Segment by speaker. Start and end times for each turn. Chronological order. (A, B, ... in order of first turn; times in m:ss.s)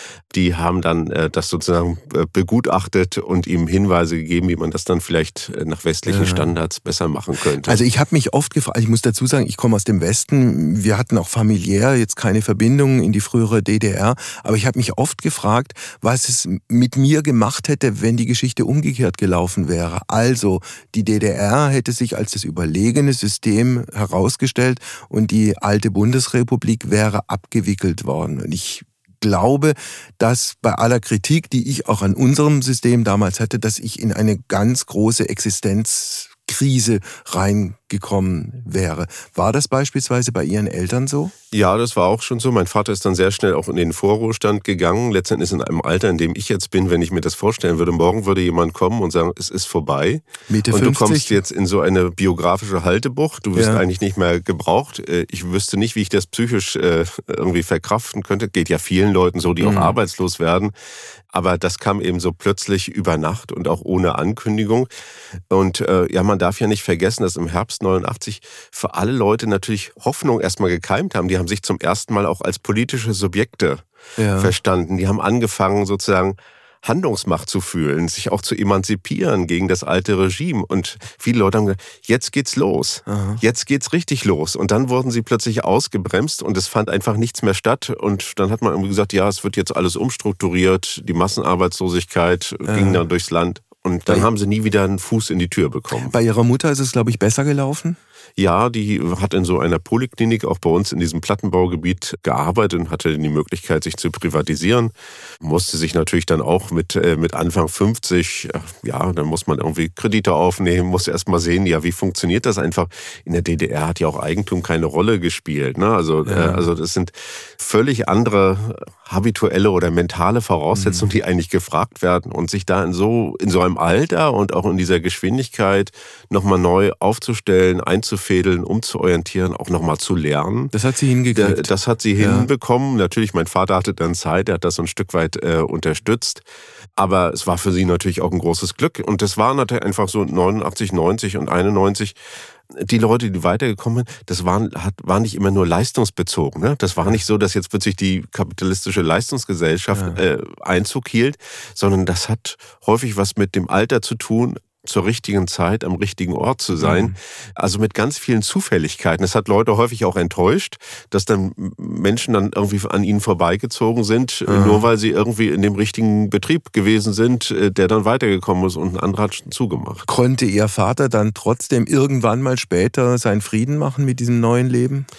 0:00.3-0:07.8 A
0:06.0-0:06.5 B
0:07.6-0:41.3 B
0:41.5-1:00.7 A
0:50.5-0:51.4 B
0:53.5-0:53.8 B
0:59.6-1:00.0 B
1:01.3-1:04.9 A
1:05.5-1:13.8 A
1:14.2-1:14.5 B
1:14.4-1:36.1 A
1:23.0-1:23.4 B
1:32.6-1:33.0 B
1:36.1-1:38.0 B
1:38.4-2:10.7 A
1:56.2-1:56.6 B
2:00.7-2:01.1 B
2:10.7-2:12.5 B
2:11.3-2:16.4 A
2:17.0-2:22.2 A
2:22.7-2:50.0 A
2:29.9-2:30.2 B
2:36.8-2:37.1 B
2:44.5-2:44.8 B
2:50.0-2:55.1 B